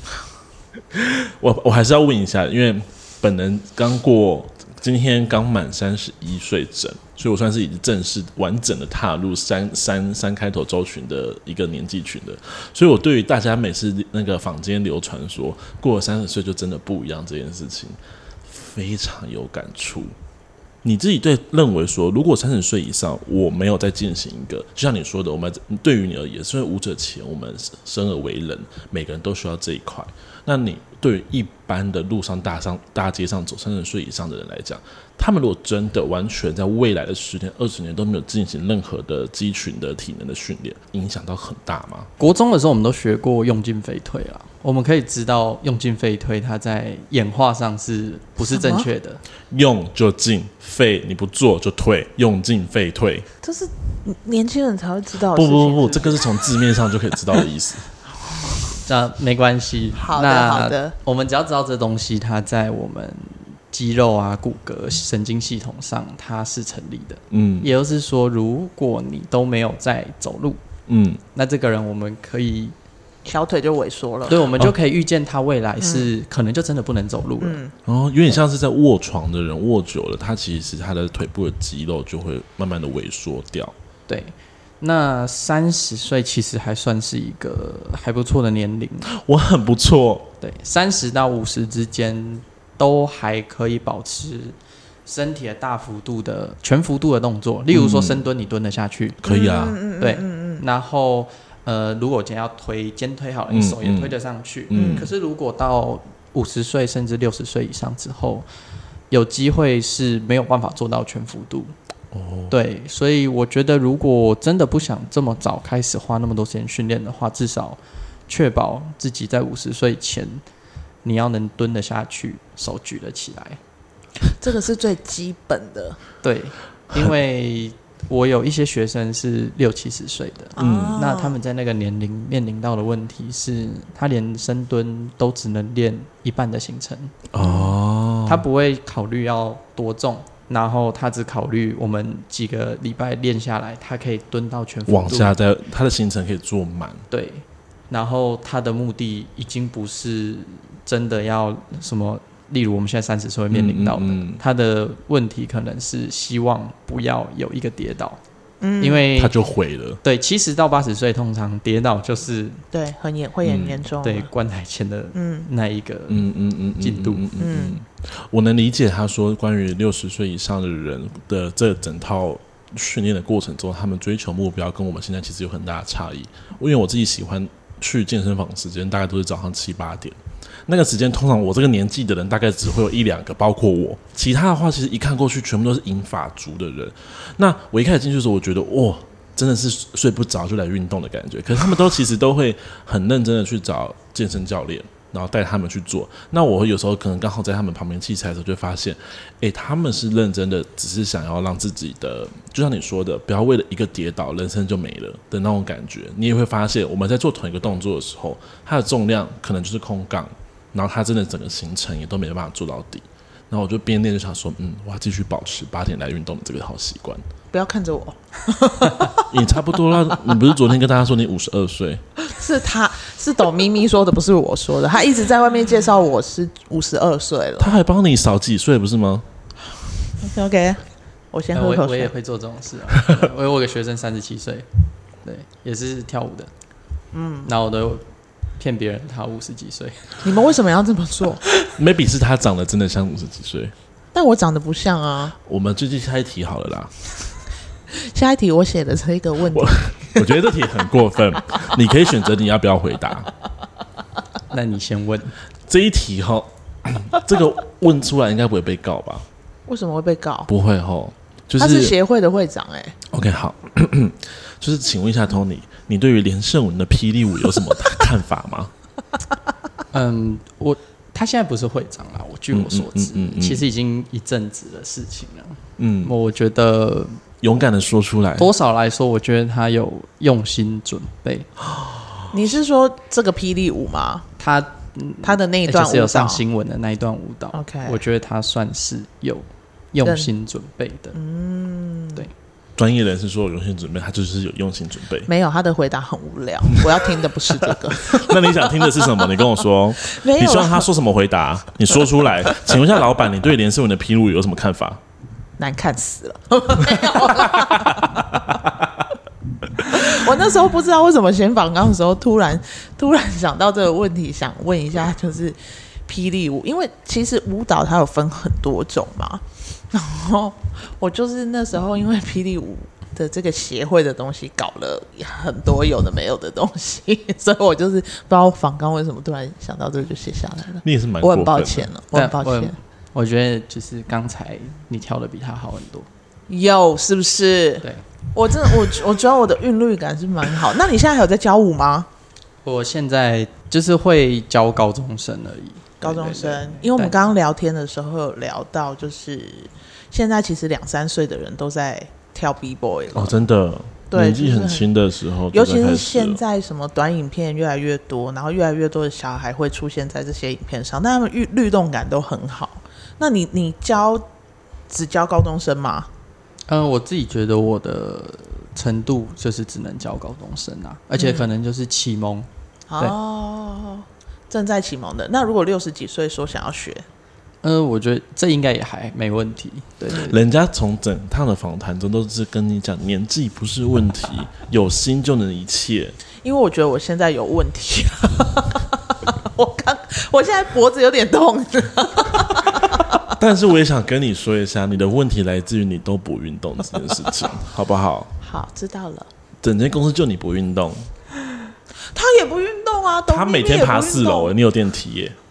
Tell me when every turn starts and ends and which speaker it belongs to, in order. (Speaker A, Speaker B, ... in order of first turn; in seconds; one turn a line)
Speaker A: 0.9-20.1
Speaker A: 20.8-42.1
Speaker B: 42.2-49.2
Speaker C: 48.5-48.9
Speaker A: 49.5-53.3
Speaker C: 53.4-56.4
Speaker A: 55.3-57.9
Speaker C: 58.4-58.8
Speaker B: 58.9-70.6
Speaker C: 60.0-61.0
Speaker A: 67.3-67.7
Speaker A: 70.9-71.2
Speaker B: 71.3-72.8
Speaker C: 73.2-74.5
Speaker B: 74.3-77.6
Speaker C: 75.8-76.1
Speaker C: 77.4-77.7
Speaker A: 77.8-83.7
Speaker B: 84.1-89.1
Speaker A: 89.1-90.3
Speaker B: 90.4-99.2
Speaker A: 97.7-98.3
Speaker A: 99.2-99.8
Speaker C: 99.2-100.6
Speaker B: 100.0-108.5
Speaker A: 103.5-104.2
Speaker A: 104.7-105.1
Speaker C: 104.7-105.1
Speaker B: 109.1-111.7
Speaker A: 112.1-112.5
Speaker B: 112.5-120.4
Speaker B: 121.0-123.6
Speaker C: 124.3-126.0
Speaker B: 126.2-137.2
Speaker C: 130.6-131.4
Speaker A: 130.6-131.0
Speaker A: 137.3-138.4
Speaker C: 137.4-137.7
Speaker B: 138.3-145.4
Speaker A: 144.9-147.1
Speaker B: 147.1-158.2
Speaker A: 153.5-154.4
Speaker C: 158.6-159.1
Speaker B: 158.8-159.3
Speaker A: 159.2-160.0
Speaker B: 160.0-162.6
Speaker C: 162.7-164.3
Speaker A: 163.4-163.8
Speaker B: 164.0-166.3
Speaker C: 165.2-165.5
Speaker A: 166.1-217.2
Speaker B: 166.8-167.3
Speaker C: 167.4-167.8
Speaker C: 217.5-219.4
Speaker A: 219.3-222.0
Speaker C: 222.3-227.7
Speaker A: 227.6-229.3
Speaker C: 230.2-232.1
Speaker B: 231.5-234.7
Speaker B: 235.2-236.5
Speaker C: 237.1-237.5
Speaker B: 237.4-238.1
Speaker B: 238.6-240.2
Speaker C: 240.2-241.4
Speaker A: 241.8-243.7
Speaker C: 244.1-245.3
Speaker A: 245.4-246.9
Speaker C: 247.9-250.4
Speaker A: 249.5-253.3
Speaker B: 254.5-255.3
Speaker A: 255.7-259.3
Speaker C: 259.7-260.5
Speaker A: 260.5-261.9
Speaker C: 261.6-263.0
Speaker A: 263.1-268.7
Speaker B: 269.9-277.2
Speaker A: 272.5-273.6
Speaker A: 275.8-276.1
Speaker A: 277.4-278.5
Speaker B: 278.4-281.5
Speaker C: 282.3-284.3
Speaker B: 284.4-291.2
Speaker C: 285.2-286.4
Speaker C: 287.5-288.0
Speaker C: 290.0-290.3
Speaker C: 291.1-292.3
Speaker A: 292.8-295.3
Speaker C: 295.3-299.3
Speaker A: 297.1-305.0
Speaker C: 300.0-300.9
Speaker C: 305.6-308.4
Speaker A: 307.6-308.1
Speaker C: 309.8-332.7
Speaker A: 330.8-331.9
Speaker B: 332.1-336.1
Speaker C: 336.5-342.1
Speaker B: 342.6-347.2
Speaker C: 346.0-353.4
Speaker A: 353.1-356.4
Speaker C: 354.1-354.9
Speaker C: 355.5-364.3
Speaker C: 364.9-366.1
Speaker B: 366.7-372.5
Speaker C: 371.2-371.5
Speaker C: 372.9-377.1
Speaker B: 377.6-380.4
Speaker A: 380.1-386.2
Speaker C: 386.4-393.3
Speaker A: 393.3-398.3
Speaker C: 398.4-399.3
Speaker A: 399.6-401.1
Speaker C: 402.1-404.5
Speaker A: 403.3-405.4